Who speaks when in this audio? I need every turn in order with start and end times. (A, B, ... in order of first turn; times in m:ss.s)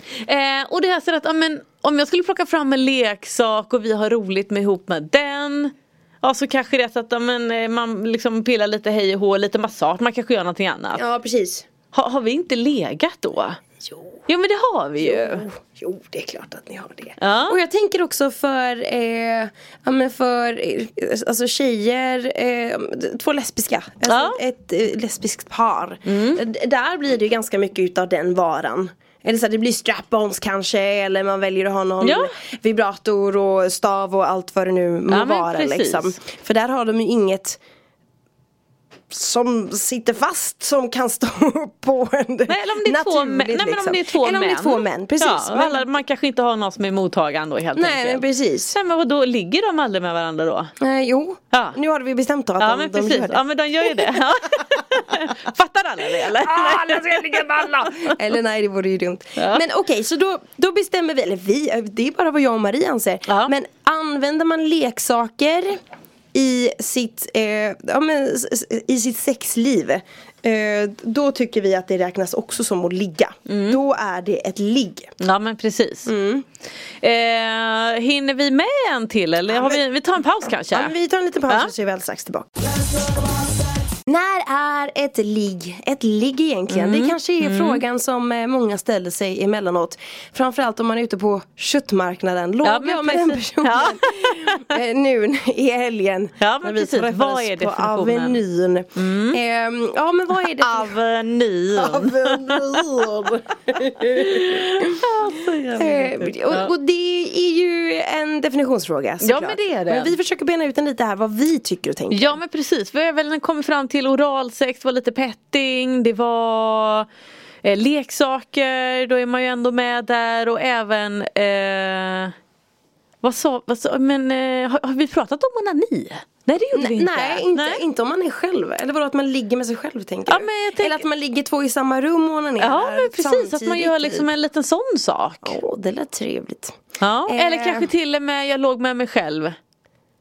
0:00.2-0:11.0 A
0:11.0-0:11.7 B
0:11.9-0:13.6 A
0:13.8-0:14.2 B
0:14.3-0:15.5 A
0:15.0-0:37.6 B
0:17.2-0:17.6 A
0:24.1-0:24.4 A
0:26.1-0:26.4 A
0:32.0-0:32.3 A
0:35.1-0:36.2 A
0:39.1-0:45.8 B
0:42.5-0:50.7 A
0:47.8-0:48.8 B
0:50.8-0:54.8 B
0:52.6-0:58.2 A
0:56.1-1:05.8 B
0:59.4-0:59.6 A
1:03.3-1:03.5 A
1:06.3-1:15.1 B
1:13.5-1:13.8 A
1:15.2-1:16.1 A
1:16.1-1:16.4 B
1:17.0-1:20.9 A
1:19.5-1:19.8 B
1:20.7-1:22.7 B
1:24.1-1:41.0 B
1:26.7-1:27.8 A
1:32.6-1:34.8 A
1:36.4-1:38.4 A
1:39.0-1:39.4 A
1:40.4-1:43.1 A
1:41.7-1:45.1 B
1:44.0-1:46.7 A
1:45.8-1:52.4 B
1:49.2-1:50.1 A
1:52.1-1:57.1 A
1:57.6-2:02.4 A
2:03.2-2:07.8 A
2:06.7-2:14.3 B
2:10.3-2:11.0 A
2:12.6-2:15.6 A
2:15.4-2:17.9 B
2:17.0-2:19.6 A